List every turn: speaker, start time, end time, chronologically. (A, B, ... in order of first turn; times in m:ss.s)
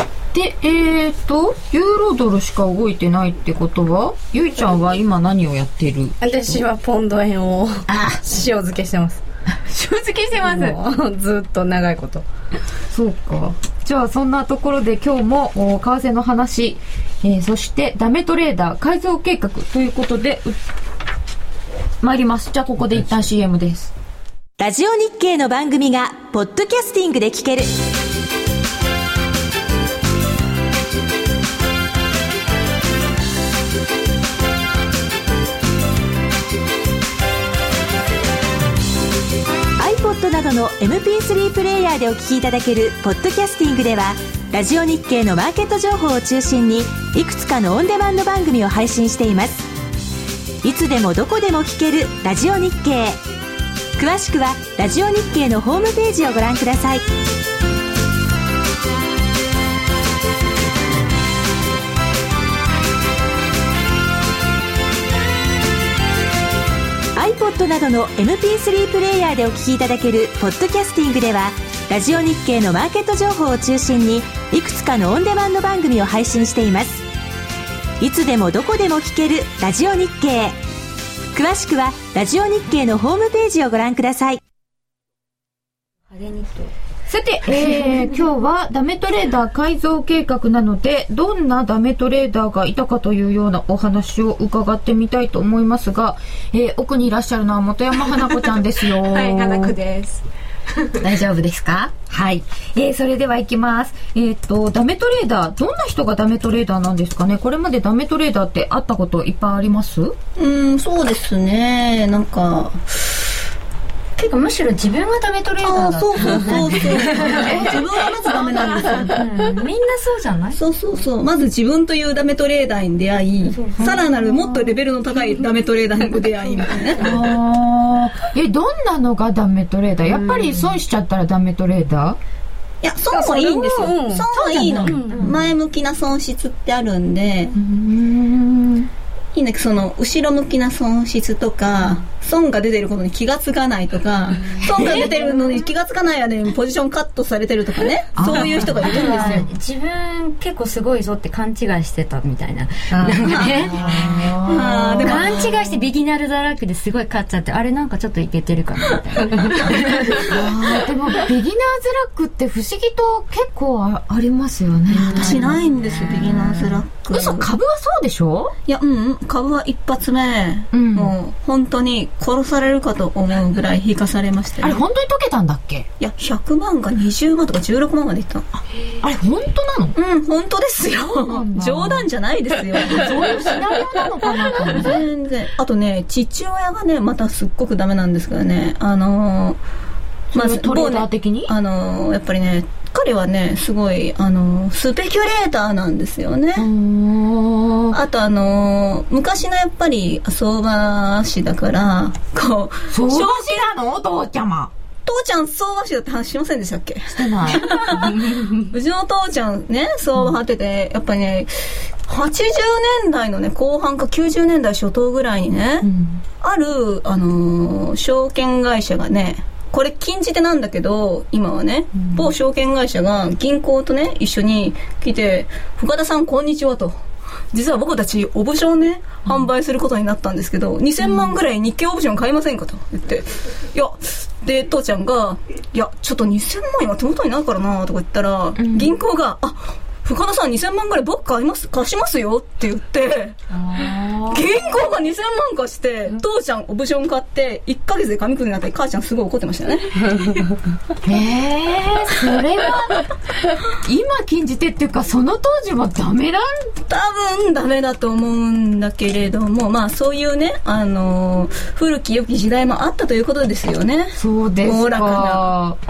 0:00.3-0:06.5 A
0:06.2-0:09.2 B
0:07.9-0:08.2 A
0:09.7-0:10.8 A
0:10.3-0:12.2 B
0:12.9-0:20.6 A
0:22.0-0:23.9 A
0:24.6-0:27.8 C
0:39.8-0:49.7 C
0:50.6-0:53.2 C
0:54.0-0:57.0 C
1:07.1-1:17.0 C
1:18.0-1:20.6 C
1:21.3-1:24.4 C
1:26.1-1:26.7 D
1:27.1-1:39.7 A
1:38.2-1:40.2 E
1:41.3-1:41.6 D
1:42.1-1:50.2 A
1:50.4-1:53.0 F
1:54.2-1:57.5 D
1:55.6-1:59.2 F
1:57.3-1:57.7 A
1:59.1-2:00.6 D
2:00.5-2:07.2 F
2:03.5-2:04.0 D
2:03.8-2:04.7 A
2:07.0-2:12.2 A
2:12.8-2:17.6 F
2:13.1-2:15.3 B
2:14.3-2:15.0 A
2:17.5-2:18.9 A
2:19.3-2:29.5 F
2:24.6-2:25.3 D
2:28.2-2:29.4 A
2:28.8-2:40.3 D
2:32.9-2:33.4 B
2:33.3-2:35.5 F
2:33.7-2:35.4 A
2:40.2-2:45.6 A
2:44.9-2:47.5 F
2:46.4-2:48.5 A
2:48.6-2:54.8 F
2:50.7-2:51.1 A
2:54.6-2:55.9 A
2:56.0-2:58.4 F
2:59.0-3:00.0 A
2:59.9-3:03.3 F
3:01.1-3:02.0 A
3:02.8-3:05.0 A
3:04.6-3:09.6 F
3:10.3-3:11.5 A
3:10.3-3:16.7 F
3:16.6-3:18.0 A
3:17.9-3:23.7 F
3:22.9-3:24.7 A
3:25.0-3:35.9 F
3:27.1-3:27.8 A
3:28.2-3:28.5 B
3:35.8-3:36.2 A
3:36.4-3:47.0 F
3:47.5-4:03.4 F
3:58.6-3:58.9 A
4:03.5-4:04.4 A
4:04.3-4:10.4 F
4:11.0-4:13.1 A
4:13.7-4:16.7 A
4:16.8-4:25.5 F
4:24.2-4:25.8 A